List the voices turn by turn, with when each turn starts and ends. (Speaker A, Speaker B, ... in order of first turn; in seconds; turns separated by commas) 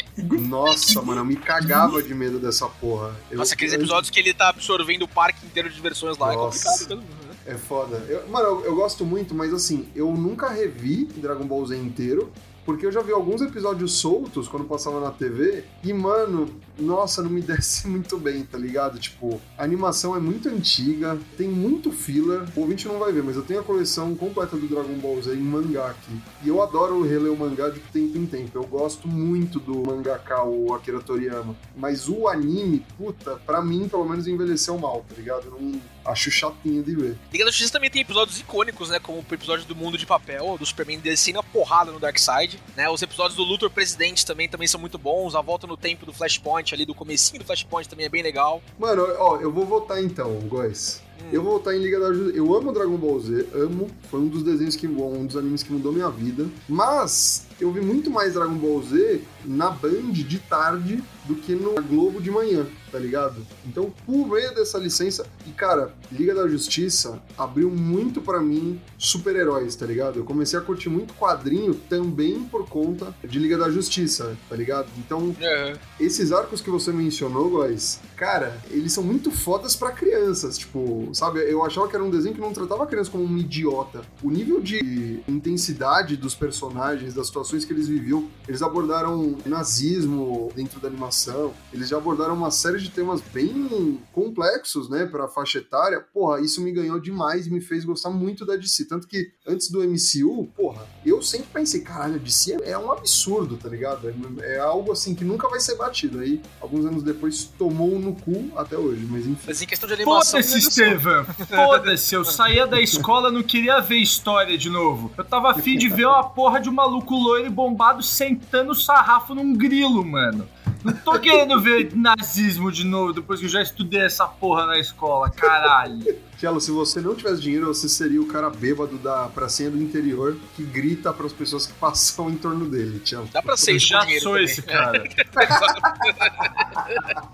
Speaker A: 0.2-1.9, Speaker B: 0.3-4.1, Speaker C: 3.4-7.4, Speaker B: 6.2-6.9, Speaker B: 7.5-37.2, Speaker C: 37.3-48.6, Speaker B: 48.8-75.4, Speaker C: 51.2-51.5, Speaker C: 75.4-75.8, Speaker B: 76.0-109.6, Speaker C: 109.5-112.3, Speaker A: 110.0-126.1, Speaker B: 126.2-133.7, Speaker C: 133.3-137.2, Speaker A: 133.7-135.1, Speaker B: 135.4-135.7